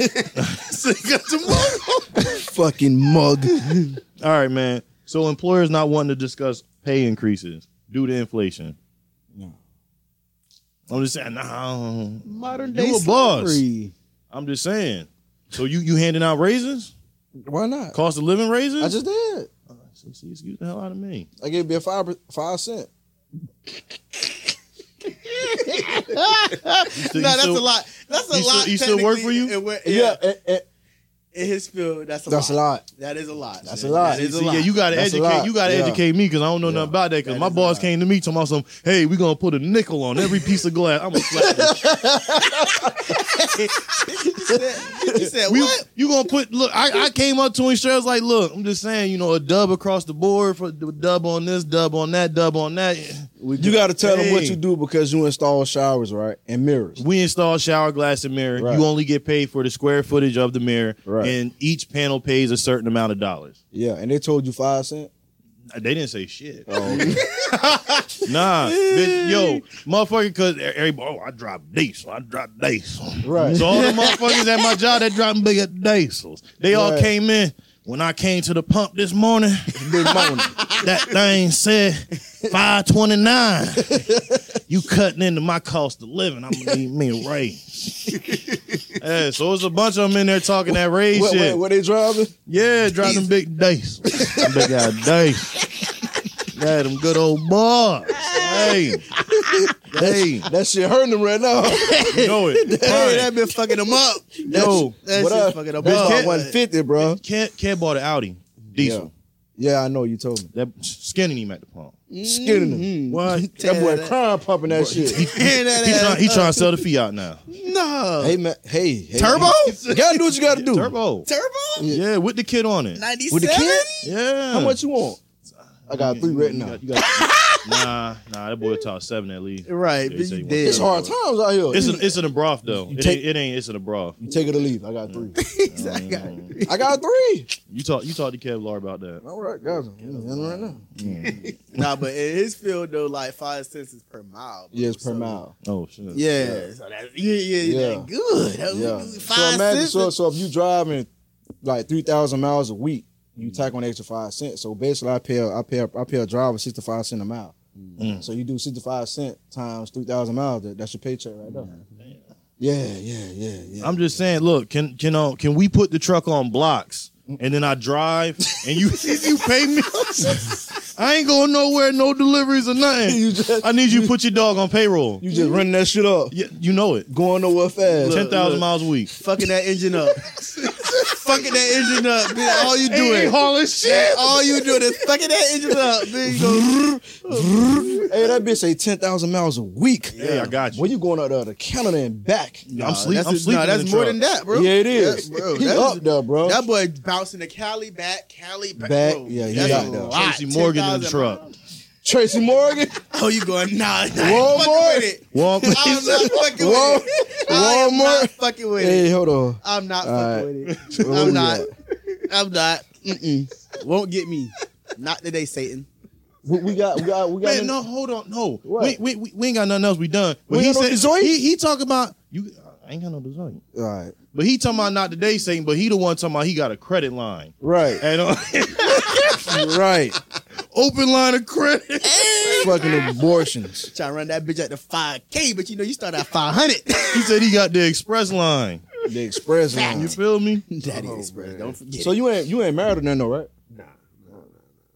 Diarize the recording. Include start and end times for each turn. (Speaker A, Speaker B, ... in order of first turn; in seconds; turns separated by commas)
Speaker A: 0.4-1.9, Speaker B: 1.2-2.2, Speaker C: 2.1-3.8, Speaker B: 3.6-4.0, Speaker A: 4.2-8.8, Speaker A: 10.9-13.6, Speaker B: 12.3-13.9, Speaker A: 14.3-16.9, Speaker C: 17.4-18.0, Speaker A: 17.9-19.0, Speaker C: 18.8-19.5, Speaker A: 19.8-21.3, Speaker C: 21.4-22.9, Speaker B: 25.1-30.2, Speaker A: 26.9-27.7, Speaker A: 28.3-29.6, Speaker C: 29.9-30.7, Speaker B: 31.3-34.7, Speaker C: 32.3-32.9, Speaker C: 33.6-34.3, Speaker A: 33.7-42.0, Speaker C: 34.9-36.0, Speaker C: 36.6-36.9, Speaker B: 37.2-37.9, Speaker C: 41.1-43.6, Speaker B: 43.0-45.8, Speaker A: 45.2-53.3, Speaker B: 53.4-54.5, Speaker C: 53.6-57.0, Speaker A: 54.0-54.6, Speaker A: 57.0-63.6, Speaker C: 58.6-58.9, Speaker C: 61.1-61.4, Speaker C: 63.7-65.1, Speaker A: 65.7-67.2, Speaker C: 66.7-67.2, Speaker B: 66.8-68.1, Speaker A: 68.2-80.2, Speaker B: 68.9-69.6, Speaker C: 73.2-73.7, Speaker B: 73.5-74.7, Speaker C: 76.7-77.1, Speaker C: 79.8-80.6, Speaker B: 80.1-80.9, Speaker A: 80.7-91.6, Speaker C: 83.8-84.5, Speaker C: 91.1-92.3, Speaker A: 92.5-95.6, Speaker C: 94.2-94.6, Speaker A: 96.4-99.0, Speaker B: 98.2-99.7, Speaker C: 99.5-103.3, Speaker A: 99.9-100.5, Speaker B: 101.7-106.6, Speaker A: 102.1-103.3, Speaker C: 104.5-107.2, Speaker A: 104.5-105.0, Speaker A: 105.8-106.4, Speaker A: 107.0-109.1, Speaker C: 108.8-110.5, Speaker A: 110.5-112.0, Speaker B: 112.1-114.1, Speaker C: 112.2-112.9, Speaker A: 113.1-113.6, Speaker C: 113.6-115.2, Speaker A: 114.7-117.4, Speaker B: 115.0-116.8, Speaker B: 117.5-118.4, Speaker C: 118.2-120.9, Speaker B: 119.2-119.8, Speaker A: 119.2-121.3, Speaker B: 121.3-121.9, Speaker A: 121.9-123.0, Speaker B: 123.0-124.0, Speaker C: 123.3-123.9, Speaker A: 124.0-124.8, Speaker C: 124.5-125.2, Speaker A: 125.9-131.2, Speaker C: 125.9-126.8, Speaker B: 126.9-127.9, Speaker B: 129.7-130.9, Speaker C: 130.6-132.0, Speaker A: 131.7-134.2, Speaker B: 131.7-132.1, Speaker C: 132.7-133.2, Speaker C: 134.2-135.4, Speaker A: 135.1-136.6, Speaker B: 135.4-136.9, Speaker C: 136.7-137.5, Speaker A: 137.7-139.2, Speaker C: 139.2-141.3, Speaker A: 140.2-141.8, Speaker B: 141.3-145.4, Speaker C: 144.7-145.5, Speaker A: 145.6-146.2, Speaker B: 146.1-150.1, Speaker C: 146.4-146.7, Speaker C: 147.6-148.1, Speaker C: 148.7-151.1, Speaker C: 151.6-157.6, Speaker A: 153.4-153.7, Speaker A: 158.0-158.3, Speaker C: 158.2-161.7, Speaker B: 161.5-161.8, Speaker C: 162.6-164.0, Speaker A: 163.8-175.2, Speaker C: 168.8-169.2, Speaker C: 170.2-170.5, Speaker C: 173.0-174.1, Speaker C: 175.2-176.3, Speaker A: 176.3-177.1, Speaker C: 177.1-178.4, Speaker A: 178.0-179.1, Speaker B: 178.1-180.2, Speaker A: 180.7-180.9, Speaker B: 181.0-188.4, Speaker A: 182.6-184.8, Speaker C: 186.2-192.7, Speaker A: 190.2-190.9, Speaker B: 190.2-190.5, Speaker B: 192.7-201.5, Speaker A: 192.7-194.2, Speaker C: 194.5-196.6, Speaker C: 198.8-200.2, Speaker A: 199.5-201.5, Speaker C: 202.0-203.0, Speaker B: 203.1-209.1, Speaker C: 204.2-205.1, Speaker A: 205.3-206.3, Speaker C: 206.1-211.7, Speaker B: 209.6-211.7, Speaker A: 210.7-211.1, Speaker B: 212.3-215.9, Speaker C: 216.4-217.8, Speaker A: 217.4-223.6, Speaker C: 218.7-219.0, Speaker C: 220.5-221.4, Speaker C: 223.7-224.2, Speaker A: 224.3-229.7, Speaker C: 227.6-228.0, Speaker B: 228.9-229.3, Speaker C: 229.3-230.2, Speaker A: 230.7-232.8, Speaker B: 232.1-232.9, Speaker C: 232.6-233.9, Speaker B: 233.9-237.3, Speaker A: 237.1-238.8, Speaker C: 239.0-240.2, Speaker B: 239.7-240.1, Speaker A: 239.7-240.7, Speaker B: 240.7-242.2, Speaker D: 240.9-241.8, Speaker C: 242.0-243.5, Speaker D: 243.7-244.8